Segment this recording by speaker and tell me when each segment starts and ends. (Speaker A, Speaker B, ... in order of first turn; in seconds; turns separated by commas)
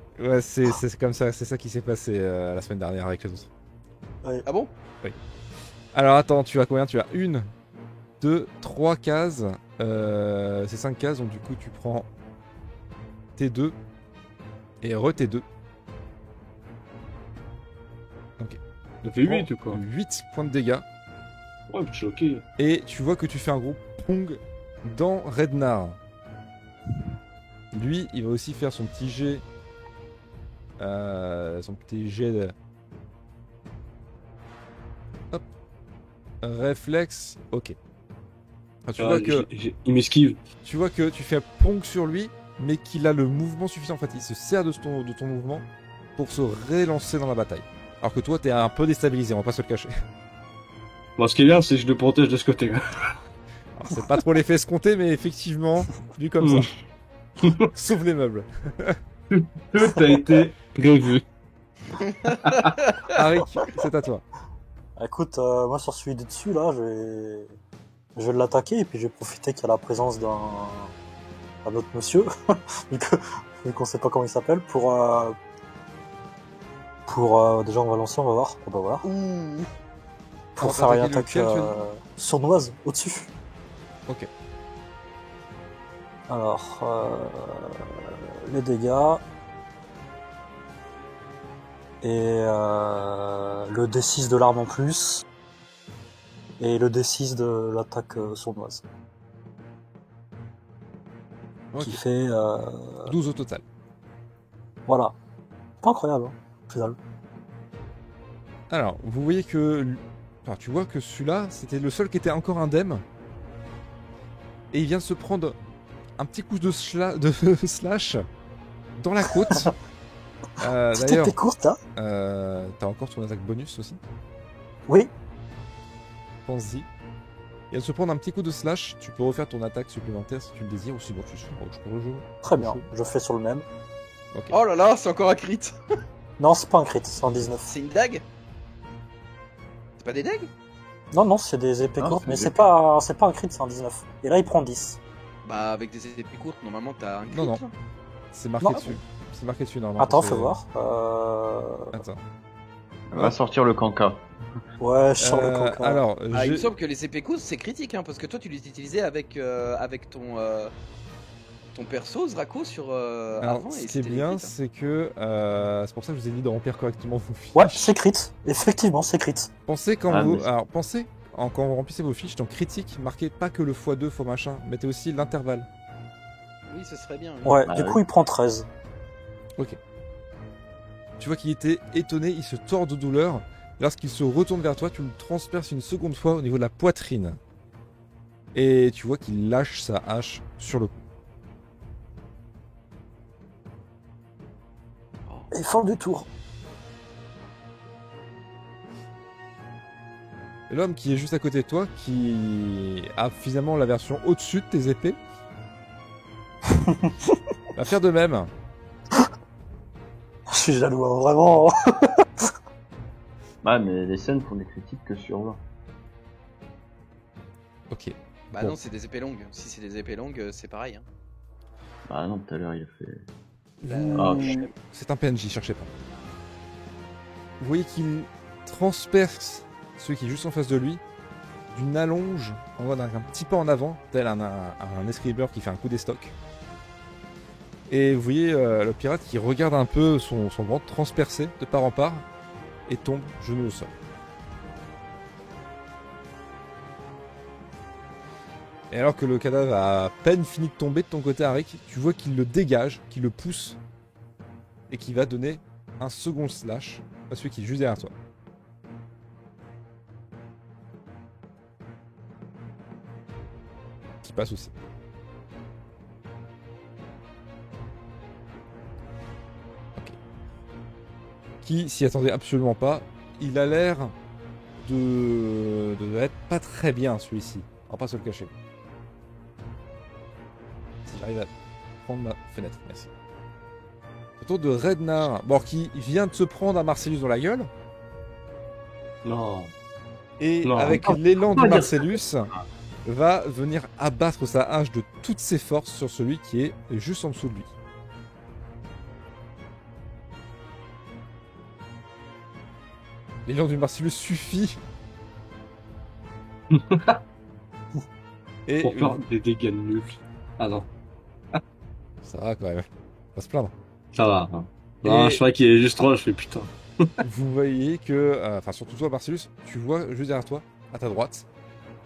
Speaker A: 0.2-3.5, Speaker B: 4.5-4.7, Speaker A: 5.9-7.5, Speaker A: 8.2-12.1, Speaker A: 13.3-13.8, Speaker A: 14.8-15.4, Speaker C: 19.0-19.8, Speaker A: 19.2-20.8, Speaker C: 21.7-22.4, Speaker A: 22.6-26.0, Speaker A: 27.7-29.4, Speaker A: 30.8-32.5, Speaker A: 36.4-37.8, Speaker A: 38.8-39.5, Speaker C: 39.0-40.4, Speaker A: 40.6-45.6, Speaker A: 46.2-49.9, Speaker C: 51.2-53.1, Speaker A: 53.8-56.7, Speaker C: 56.4-56.7, Speaker C: 57.4-57.7, Speaker A: 57.7-59.0, Speaker C: 59.3-61.2, Speaker B: 62.0-63.2, Speaker C: 62.4-62.7, Speaker A: 63.1-64.2, Speaker D: 65.0-67.5, Speaker D: 68.2-70.9, Speaker D: 71.6-75.4, Speaker D: 77.1-79.0, Speaker B: 79.0-79.7, Speaker D: 80.5-83.3, Speaker A: 80.6-81.8, Speaker D: 86.3-89.2, Speaker D: 92.0-95.2, Speaker D: 96.6-98.8, Speaker A: 101.7-102.0, Speaker D: 101.8-103.1, Speaker A: 103.0-103.6, Speaker D: 104.9-105.1, Speaker D: 105.8-107.0, Speaker A: 108.7-113.0, Speaker A: 114.7-115.6, Speaker A: 116.2-118.2, Speaker A: 119.0-119.7, Speaker A: 120.6-121.3, Speaker D: 120.9-121.8, Speaker A: 122.0-124.0, Speaker A: 126.5-126.9, Speaker A: 127.7-132.9, Speaker D: 132.4-133.7, Speaker B: 134.5-135.7, Speaker D: 136.4-137.7, Speaker B: 137.7-138.2, Speaker B: 140.0-140.5, Speaker D: 141.1-145.0, Speaker E: 142.0-142.7, Speaker B: 145.4-147.7, Speaker A: 147.3-147.6, Speaker A: 148.3-150.6, Speaker D: 148.6-148.9, Speaker D: 150.0-152.0, Speaker A: 151.9-152.2, Speaker E: 153.1-154.3, Speaker D: 154.8-156.0, Speaker A: 155.2-156.7, Speaker B: 156.3-160.7, Speaker B: 161.7-164.5, Speaker A: 163.4-167.9, Speaker D: 167.5-169.5, Speaker A: 169.7-175.7, Speaker E: 170.1-170.5, Speaker B: 176.7-177.7, Speaker D: 177.4-178.7, Speaker E: 177.7-178.0, Speaker A: 181.2-187.4, Speaker A: 188.5-191.0, Speaker D: 195.5-196.3, Speaker A: 200.7-205.2, Speaker D: 206.7-207.3, Speaker A: 207.7-208.5, Speaker D: 210.5-212.4, Speaker E: 213.6-215.6, Speaker A: 217.9-218.8, Speaker B: 218.5-221.1, Speaker E: 222.1-223.2, Speaker A: 223.8-225.9, Speaker B: 223.8-224.7, Speaker E: 224.2-224.6, Speaker A: 227.6-231.0, Speaker A: 231.7-236.3, Speaker A: 237.9-242.2, Speaker A: 242.9-243.9, Speaker A: 248.9-253.8, Speaker A: 254.9-258.1, Speaker A: 264.2-264.7, Speaker A: 271.6-274.1, Speaker A: 274.8-278.5, Speaker A: 281.1-281.5, Speaker A: 282.0-283.1, Speaker A: 284.4-287.7, Speaker C: 289.2-289.7, Speaker A: 290.4-292.5, Speaker C: 290.6-291.1, Speaker E: 291.0-292.2, Speaker A: 293.0-297.7, Speaker A: 303.4-304.8, Speaker C: 306.7-307.2, Speaker A: 308.7-309.2, Speaker C: 308.8-310.9, Speaker A: 312.2-313.7, Speaker C: 314.1-317.1, Speaker A: 315.0-315.4, Speaker A: 317.2-321.4